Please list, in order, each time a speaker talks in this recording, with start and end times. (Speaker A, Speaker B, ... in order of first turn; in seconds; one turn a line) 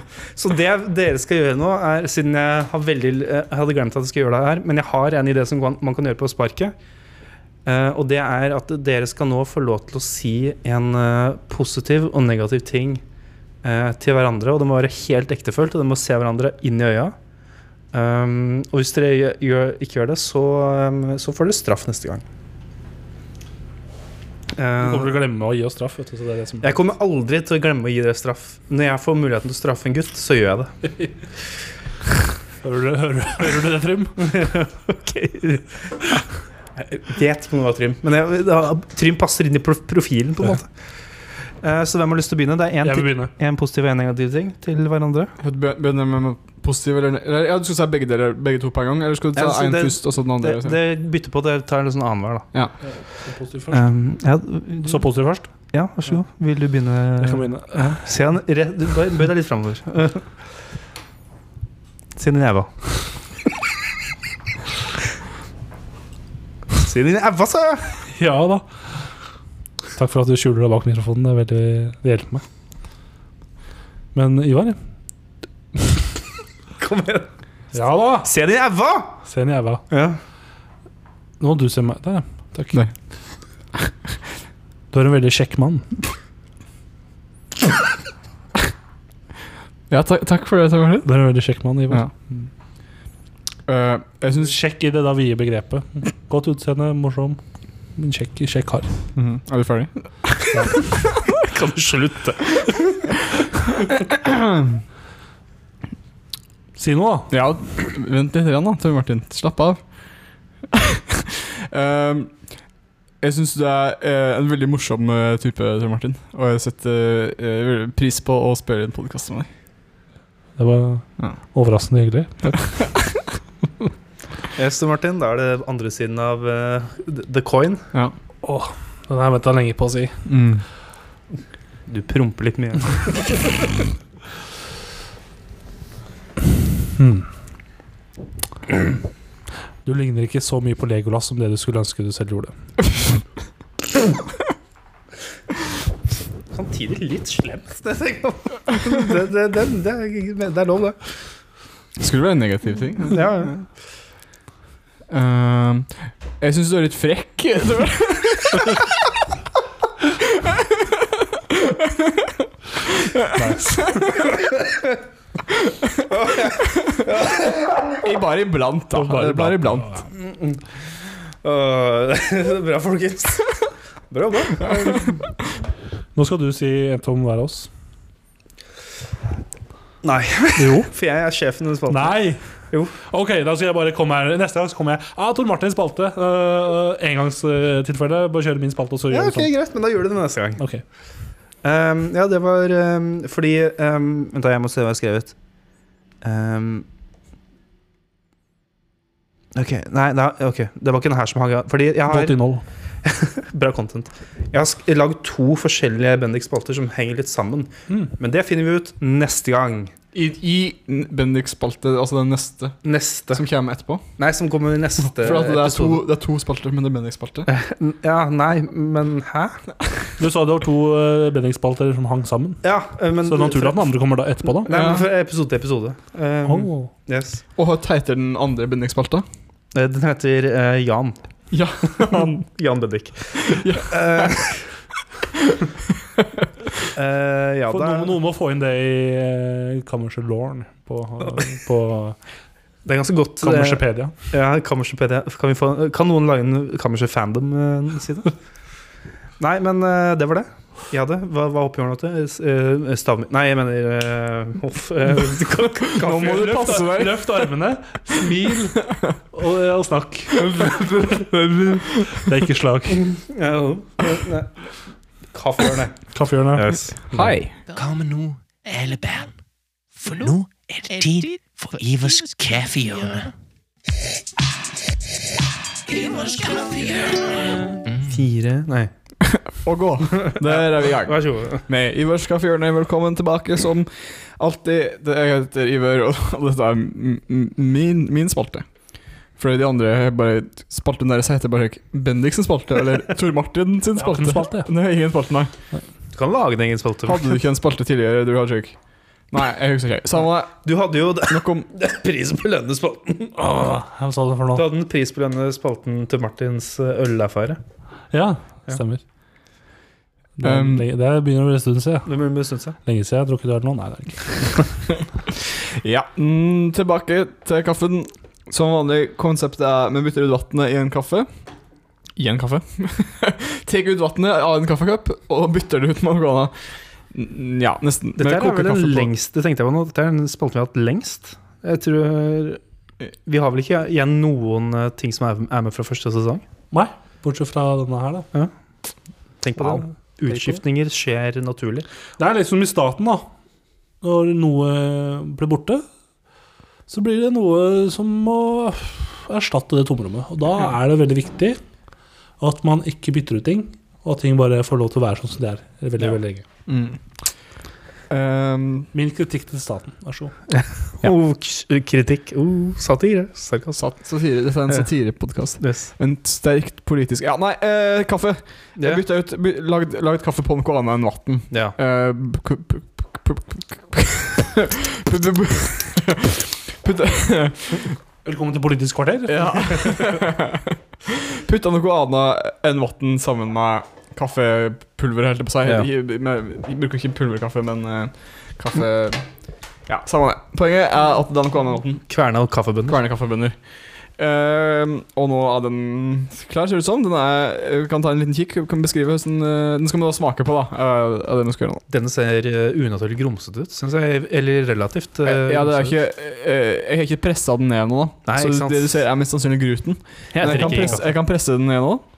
Speaker A: 0.3-6.7
Speaker A: 7.6-13.0
Speaker A: 13.6-17.1
Speaker A: 17.9-22.2
Speaker A: 24.5-25.2
Speaker B: 24.8-26.7
Speaker A: 26.6-30.7
Speaker B: 32.6-34.5
Speaker A: 34.2-36.2
Speaker A: 36.8-40.7
Speaker A: 41.6-45.3
Speaker B: 42.8-43.3
Speaker C: 45.4-50.8
Speaker A: 49.3-52.5
Speaker B: 52.8-53.8
Speaker A: 53.7-55.0
Speaker B: 54.8-55.5
Speaker A: 55.7-60.3
Speaker B: 57.2-58.0
Speaker A: 62.1-62.8
Speaker A: 66.7-68.0
Speaker B: 68.1-68.7
Speaker B: 69.9-72.4
Speaker B: 74.1-74.8
Speaker A: 76.8-77.3
Speaker B: 77.7-78.3
Speaker A: 78.2-79.2
Speaker B: 79.2-79.8
Speaker A: 79.9-80.2
Speaker B: 81.4-82.8
Speaker B: 84.9-86.0
Speaker C: 89.9-91.1
Speaker B: 91.0-92.5
Speaker C: 93.7-94.5
Speaker B: 94.3-97.4
Speaker B: 98.0-98.9
Speaker C: 99.1-101.2
Speaker A: 101.4-102.8
Speaker C: 104.1-104.8
Speaker B: 106.8-107.3
Speaker C: 107.3-109.8
Speaker C: 110.7-112.6
Speaker C: 113.2-119.5
Speaker B: 120.6-122.8
Speaker A: 124.5-127.8
Speaker B: 128.4-130.2
Speaker C: 130.3-130.6
Speaker A: 131.9-133.4
Speaker B: 137.0-137.3
Speaker B: 139.8-142.5
Speaker A: 146.5-151.0
Speaker C: 152.0-153.6
Speaker A: 153.1-153.5
Speaker C: 155.1-158.9
Speaker C: 160.2-160.9
Speaker C: 161.5-164.2
Speaker B: 163.3-164.1
Speaker A: 164.3-165.0
Speaker C: 165.5-167.4
Speaker A: 166.1-167.9
Speaker C: 167.9-169.9
Speaker B: 168.9-170.0
Speaker A: 170.1-175.1
Speaker B: 176.1-177.7
Speaker A: 180.0-182.2
Speaker B: 180.6-180.9
Speaker B: 181.9-182.4
Speaker A: 182.7-182.9
Speaker B: 182.9-189.5
Speaker A: 189.1-190.6
Speaker A: 191.6-195.3
Speaker A: 196.2-196.8
Speaker A: 199.5-202.4
Speaker B: 202.1-202.6
Speaker A: 203.0-209.9
Speaker C: 210.1-212.8
Speaker A: 212.8-213.4
Speaker C: 213.3-214.0
Speaker A: 214.2-216.0
Speaker C: 215.2-217.5
Speaker A: 217.5-219.6
Speaker B: 220.2-222.6
Speaker A: 222.6-223.8
Speaker B: 223.2-224.7
Speaker A: 224.6-227.4
Speaker C: 224.7-225.1
Speaker B: 226.4-226.9
Speaker C: 227.6-229.2
Speaker A: 229.7-231.2
Speaker C: 231.5-232.5
Speaker A: 231.9-234.6
Speaker C: 233.4-234.5
Speaker A: 236.9-238.1
Speaker B: 237.7-242.2
Speaker A: 242.8-248.3
Speaker B: 243.4-244.1
Speaker A: 249.4-256.9
Speaker C: 256.0-257.4
Speaker B: 256.0-263.1
Speaker C: 258.9-259.1
Speaker A: 260.6-261.4
Speaker A: 263.0-264.8
Speaker A: 265.3-267.3
Speaker B: 266.1-266.9
Speaker C: 267.1-267.6
Speaker D: 267.7-269.3
Speaker D: 269.9-273.3
Speaker D: 275.9-278.2
Speaker A: 278.0-278.9
Speaker C: 279.2-288.6
Speaker A: 280.1-281.6
Speaker C: 289.4-295.5
Speaker B: 294.0-294.7
Speaker A: 296.1-297.3
Speaker C: 297.1-298.8
Speaker C: 299.3-300.7
Speaker A: 300.6-303.6
Speaker C: 301.3-301.7
Speaker B: 303.4-304.6
Speaker A: 304.5-307.6
Speaker B: 308.1-309.0
Speaker B: 310.4-312.1
Speaker C: 310.4-310.8
Speaker A: 312.1-312.8
Speaker B: 312.8-314.7
Speaker C: 315.3-321.3
Speaker C: 322.2-326.5
Speaker C: 327.1-329.1
Speaker A: 328.2-332.6
Speaker A: 333.2-336.4
Speaker B: 336.7-338.3
Speaker A: 339.4-341.9
Speaker B: 342.2-343.3
Speaker B: 344.0-345.8
Speaker B: 346.9-351.6
Speaker B: 352.4-356.4
Speaker C: 356.7-357.0
Speaker C: 358.1-358.9
Speaker B: 358.9-360.3
Speaker A: 360.5-363.8
Speaker C: 363.8-378.0
Speaker A: 365.6-365.9
Speaker A: 371.5-371.8
Speaker B: 378.2-379.9
Speaker C: 379.3-389.2
Speaker C: 389.9-392.1
Speaker A: 392.1-393.0
Speaker C: 392.9-393.6
Speaker C: 394.2-401.8
Speaker A: 401.9-406.0
Speaker C: 405.2-412.0
Speaker A: 408.2-409.0
Speaker A: 410.3-411.0